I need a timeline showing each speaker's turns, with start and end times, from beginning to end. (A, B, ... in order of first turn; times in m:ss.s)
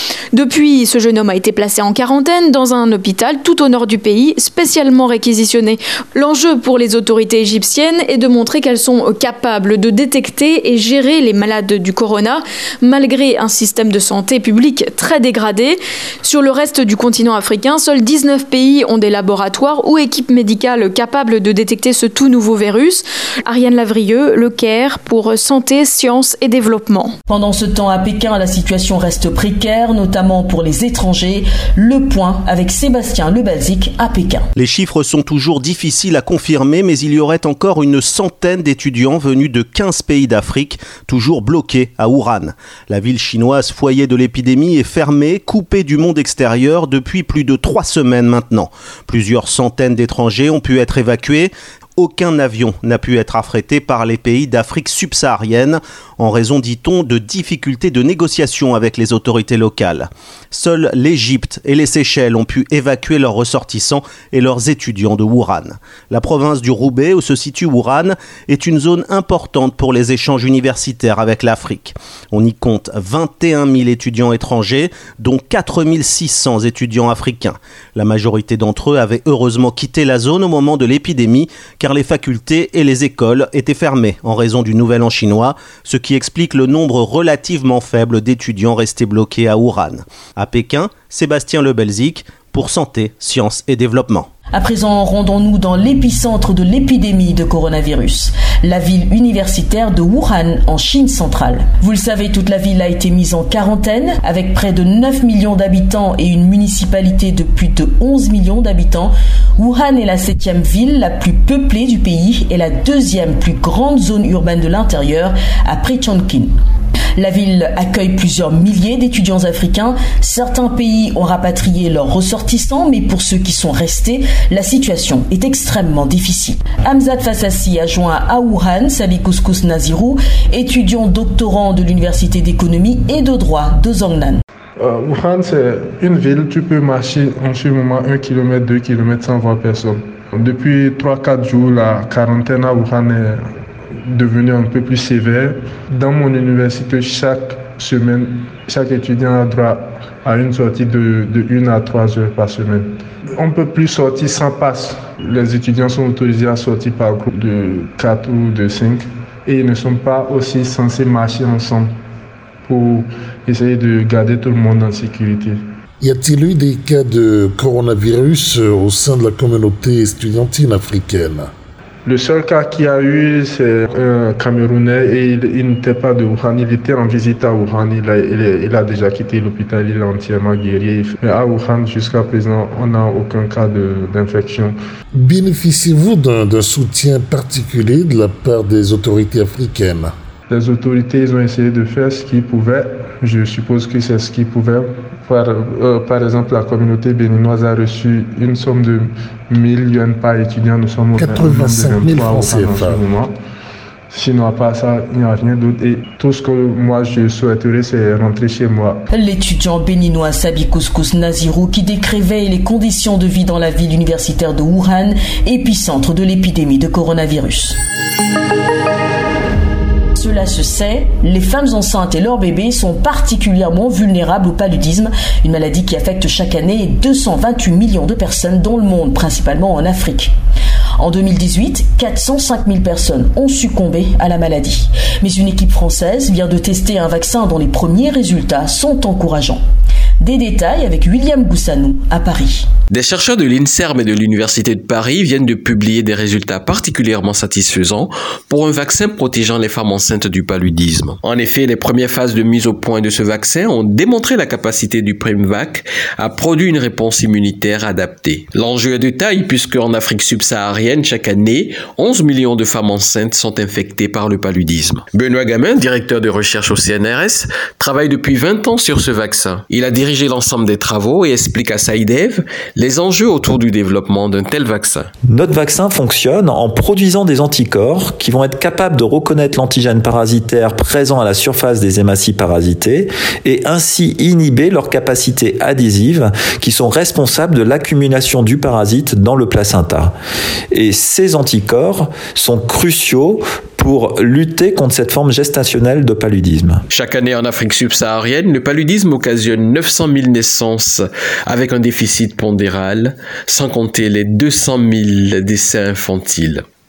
0:00.3-0:27.1 A
0:27.3-0:34.4 B
0:34.6-1:34.3 C
1:34.5-1:56.5 B
1:57.2-2:14.4 B
2:14.8-2:23.4 D
2:24.0-2:41.9 D
2:42.6-2:45.6 D
2:46.0-2:51.5 E
2:52.0-3:04.8 D
3:05.1-3:10.1 E
3:10.5-3:23.3 D
3:21.2-3:23.0 E
3:24.1-3:29.0 D
3:29.1-3:37.8 B
3:40.2-3:50.3 B
3:51.0-3:59.6 B
4:00.2-4:02.7 B
4:02.9-4:35.1 F
4:35.3-4:50.1 G
4:50.7-4:56.8 G
4:56.9-5:06.6 F